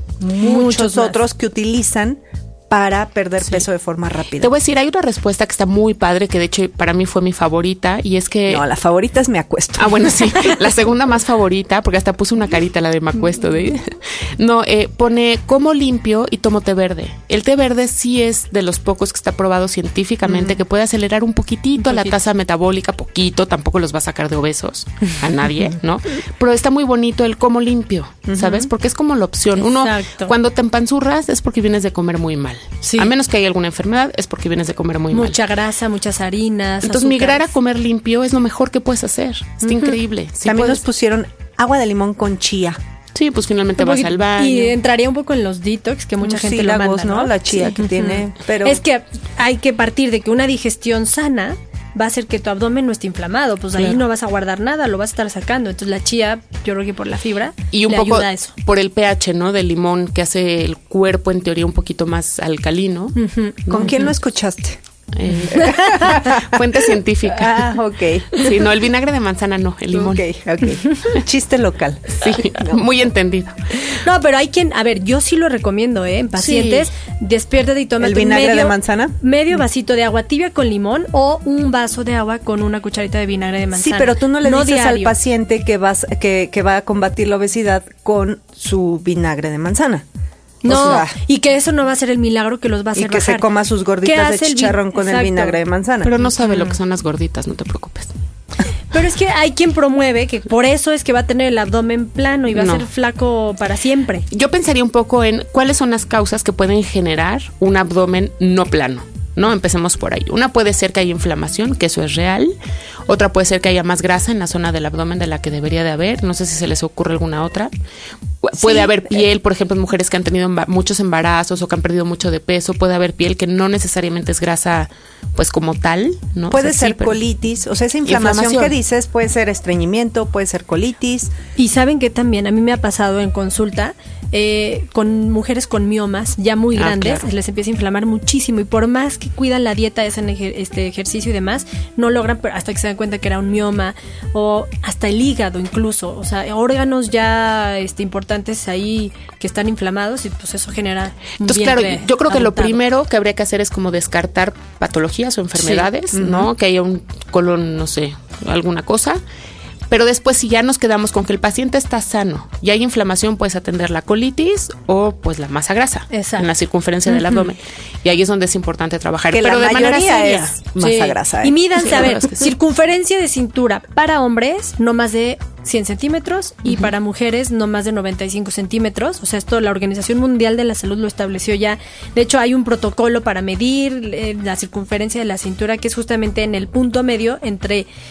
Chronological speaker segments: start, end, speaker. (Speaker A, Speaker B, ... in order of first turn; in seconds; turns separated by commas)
Speaker A: 0.2-4.5, Speaker B: 0.4-1.2, Speaker C: 4.4-8.7, Speaker A: 8.5-10.7, Speaker C: 9.8-35.4, Speaker A: 20.3-20.6, Speaker B: 21.8-22.1, Speaker B: 28.4-28.7, Speaker B: 29.6-30.3, Speaker B: 32.8-33.1, Speaker B: 35.1-37.5, Speaker C: 36.8-40.8, Speaker A: 39.6-42.8, Speaker C: 43.1-44.8, Speaker B: 43.8-58.5, Speaker A: 46.2-48.8, Speaker C: 57.7-63.1, Speaker B: 63.1-63.6, Speaker C: 63.7-64.0, Speaker A: 63.7-64.8, Speaker C: 65.1-67.7, Speaker A: 65.5-68.7, Speaker B: 65.6-66.1, Speaker C: 68.4-70.2, Speaker A: 69.9-72.8, Speaker C: 72.2-73.9, Speaker B: 74.0-85.2, Speaker C: 76.4-76.9, Speaker A: 78.0-79.2, Speaker A: 83.8-90.0, Speaker B: 90.6-93.5, Speaker A: 90.7-91.2, Speaker A: 93.0-96.1, Speaker B: 94.0-95.6, Speaker C: 96.0-98.1, Speaker B: 96.5-96.7, Speaker B: 98.9-104.3, Speaker C: 102.5-102.9, Speaker C: 104.3-112.5, Speaker C: 113.1-117.7, Speaker C: 118.4-127.2, Speaker A: 118.6-119.2, Speaker A: 126.5-131.3, Speaker C: 128.1-128.8, Speaker B: 131.6-152.8, Speaker C: 136.8-137.3, Speaker C: 151.4-159.2, Speaker B: 155.6-155.8, Speaker A: 156.1-156.5, Speaker C: 159.9-170.6, Speaker B: 166.1-166.5, Speaker B: 167.1-167.4, Speaker A: 169.3-172.2, Speaker B: 170.8-187.9, Speaker C: 171.8-172.5